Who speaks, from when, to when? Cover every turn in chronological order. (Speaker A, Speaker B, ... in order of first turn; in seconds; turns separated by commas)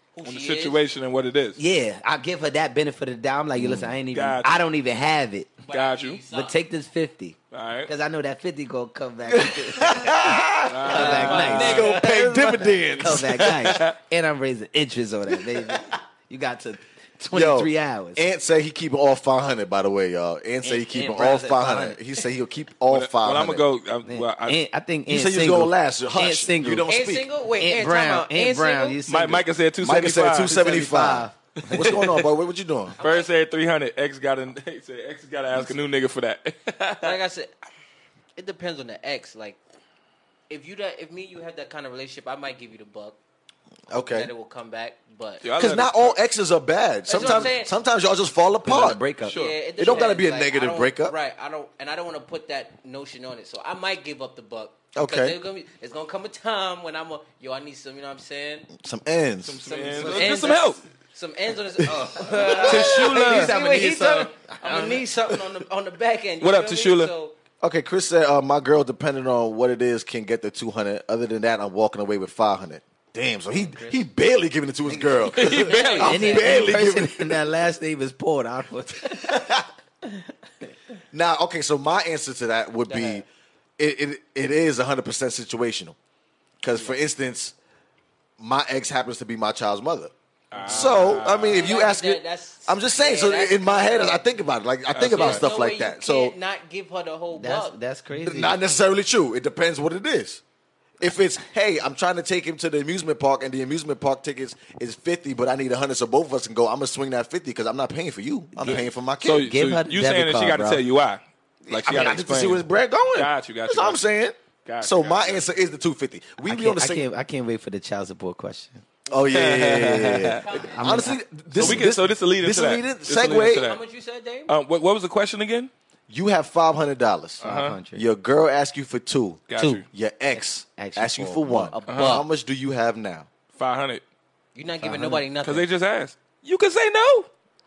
Speaker A: 0.1-0.8, Speaker B: 0.2-1.6, Speaker C: 1.6-5.5, Speaker D: 3.6-3.9, Speaker B: 4.1-4.5, Speaker A: 5.7-6.6, Speaker B: 5.7-6.2, Speaker C: 6.3-18.3, Speaker B: 7.5-7.9, Speaker D: 9.3-13.8, Speaker B: 10.7-12.1, Speaker A: 10.9-12.4, Speaker B: 12.7-14.0, Speaker D: 17.3-23.6, Speaker C: 20.6-22.0, Speaker B: 22.9-24.6, Speaker C: 24.1-26.9, Speaker D: 25.1-27.3, Speaker A: 26.9-29.0, Speaker C: 27.6-29.5, Speaker B: 29.1-30.6, Speaker D: 29.8-33.0, Speaker C: 30.5-32.0, Speaker B: 31.6-32.3, Speaker A: 33.0-33.3, Speaker B: 33.0-37.2, Speaker A: 37.0-37.5, Speaker A: 38.4-39.6, Speaker A: 40.5-43.2, Speaker D: 43.9-44.3, Speaker A: 44.0-45.4, Speaker B: 45.4-46.2, Speaker D: 45.6-49.0, Speaker A: 47.1-47.7, Speaker B: 47.2-47.5, Speaker C: 48.6-49.4, Speaker B: 49.2-49.6, Speaker A: 49.3-58.7, Speaker D: 49.8-51.1, Speaker D: 54.9-55.4, Speaker D: 58.8-59.6, Speaker B: 59.5-60.8, Speaker A: 59.7-67.3, Speaker C: 59.9-60.8, Speaker C: 61.9-65.0, Speaker D: 61.9-62.8, Speaker B: 62.6-63.5, Speaker B: 66.4-67.1, Speaker D: 67.6-77.3, Speaker C: 73.5-74.1, Speaker C: 74.9-80.7, Speaker B: 75.3-76.4, Speaker A: 75.7-76.7, Speaker D: 81.1-83.3, Speaker A: 82.9-83.2, Speaker D: 83.8-86.0, Speaker D: 86.6-87.5, Speaker D: 88.4-96.3, Speaker B: 90.5-91.7, Speaker A: 91.5-94.2, Speaker B: 94.9-95.5, Speaker A: 95.1-97.8, Speaker C: 97.3-98.6, Speaker D: 98.2-100.4, Speaker D: 101.0-109.5, Speaker C: 108.6-110.8, Speaker B: 109.2-114.0, Speaker D: 111.7-117.0, Speaker B: 114.7-115.5, Speaker C: 116.4-118.8, Speaker D: 119.1-123.7, Speaker B: 119.3-120.4, Speaker A: 120.4-121.1, Speaker C: 120.5-121.9, Speaker B: 121.6-123.8, Speaker A: 123.5-124.5, Speaker B: 124.5-125.7, Speaker D: 126.1-133.3, Speaker B: 127.4-127.8, Speaker C: 127.4-128.1, Speaker B: 129.5-129.8, Speaker A: 129.6-129.8, Speaker C: 130.3-131.7, Speaker A: 131.5-132.2, Speaker B: 131.9-132.2, Speaker B: 133.6-134.0, Speaker A: 134.6-135.7, Speaker C: 134.8-135.2, Speaker B: 135.4-137.3